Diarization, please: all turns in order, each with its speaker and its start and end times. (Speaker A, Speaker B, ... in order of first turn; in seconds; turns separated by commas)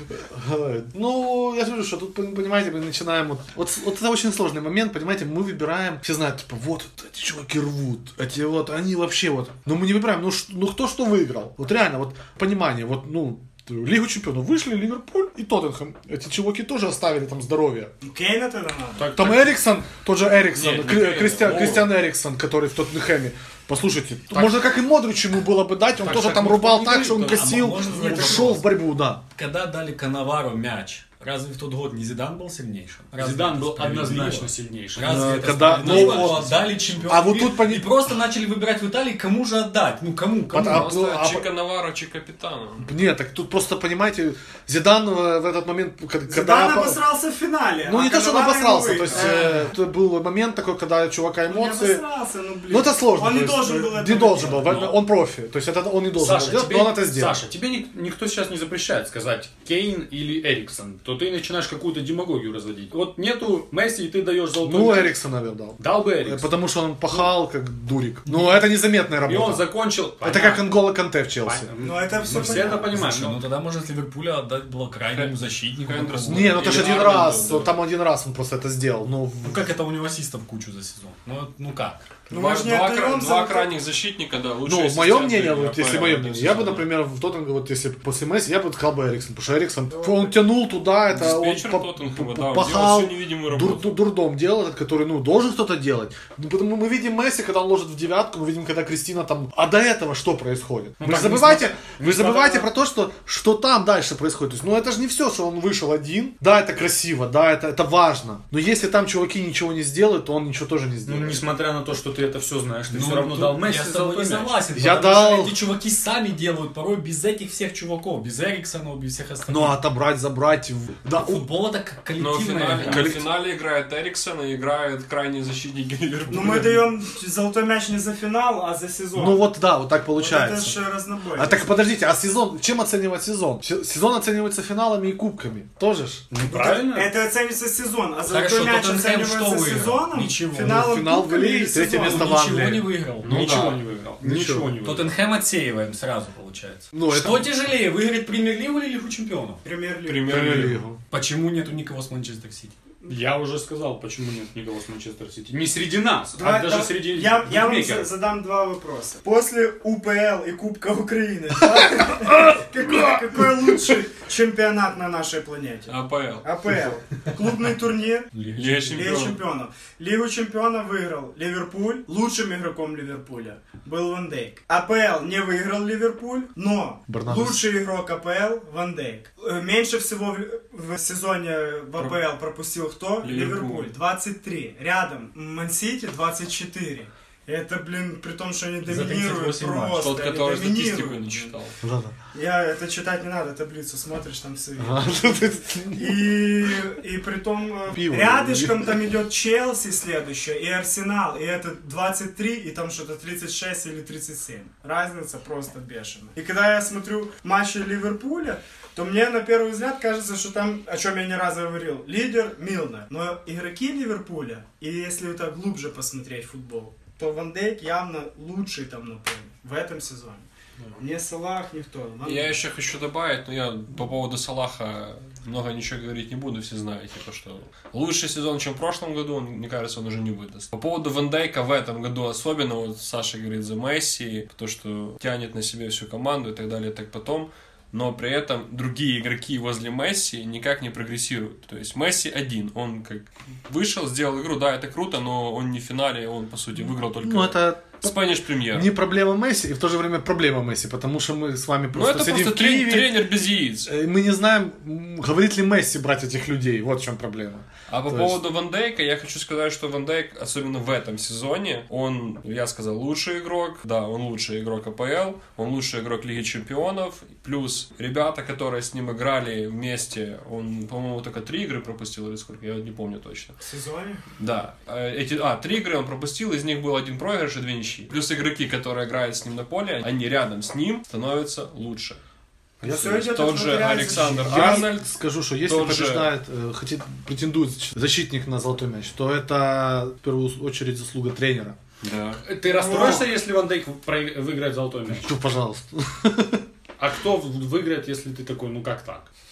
Speaker A: 0.1-17.9, Speaker B: 18.0-19.1, Speaker C: 19.0-19.6, Speaker A: 19.1-29.2, Speaker D: 20.5-21.9, Speaker C: 26.0-27.4, Speaker E: 27.1-28.8, Speaker C: 28.0-28.4, Speaker E: 29.3-40.9, Speaker C: 33.2-36.7, Speaker A: 35.0-37.9, Speaker A: 40.5-41.5, Speaker D: 40.6-42.9, Speaker A: 42.8-47.0, Speaker B: 46.3-49.4, Speaker A: 47.8-52.0, Speaker C: 49.1-49.6, Speaker B: 51.5-54.9, Speaker A: 52.7-57.4, Speaker C: 56.1-65.2, Speaker A: 64.6-69.7, Speaker C: 65.8-66.5, Speaker C: 68.3-70.7, Speaker A: 70.2-71.7, Speaker C: 71.4-73.4, Speaker B: 71.8-72.8, Speaker E: 72.1-77.3, Speaker D: 75.1-77.8, Speaker A: 76.2-79.7, Speaker E: 79.4-82.1, Speaker D: 82.3-86.9, Speaker B: 82.3-83.7, Speaker A: 84.6-111.4, Speaker B: 89.9-90.3, Speaker D: 91.1-94.0, Speaker C: 101.0-102.7, Speaker C: 111.0-114.5, Speaker E: 112.9-119.8, Speaker A: 114.7-115.6, Speaker A: 119.5-121.4, Speaker E: 121.1-123.2, Speaker D: 122.2-126.9, Speaker A: 122.8-123.2, Speaker B: 126.3-129.4, Speaker A: 129.1-130.8, Speaker B: 130.1-131.7, Speaker A: 131.3-136.3, Speaker C: 136.3-137.1, Speaker B: 136.4-142.4, Speaker E: 138.2-140.9, Speaker A: 140.6-142.9, Speaker E: 141.8-143.7, Speaker D: 143.2-143.8, Speaker C: 143.2-145.1, Speaker A: 144.2-144.8, Speaker E: 144.8-149.6, Speaker A: 146.9-147.5, Speaker B: 149.6-150.6, Speaker D: 150.1-150.9, Speaker A: 150.2-151.0, Speaker E: 151.1-152.7, Speaker C: 153.1-158.1, Speaker B: 156.3-168.3, Speaker A: 162.0-163.9, Speaker D: 165.9-166.4, Speaker E: 168.3-169.2, Speaker D: 168.6-169.4, Speaker B: 168.9-191.5, Speaker A: 177.1-177.7, Speaker D: 181.9-182.2, Speaker D: 183.2-183.9, Speaker E: 188.8-190.1, Speaker D: 190.0-191.8, Speaker A: 191.8-192.1, Speaker B: 192.3-220.5, Speaker A: 194.8-196.8, Speaker A: 197.9-199.0, Speaker B: 221.0-222.6, Speaker D: 222.2-248.9, Speaker A: 246.8-258.4, Speaker D: 251.9-253.9, Speaker D: 257.9-273.6, Speaker B: 273.6-274.2, Speaker D: 274.4-282.2, Speaker B: 282.8-284.9, Speaker A: 282.8-283.2, Speaker D: 282.9-285.1, Speaker A: 284.2-291.8, Speaker D: 285.6-286.3, Speaker D: 292.0-292.4, Speaker C: 292.4-295.4, Speaker B: 292.7-293.2, Speaker A: 292.9-293.2, Speaker A: 295.1-296.6, Speaker C: 297.0-299.3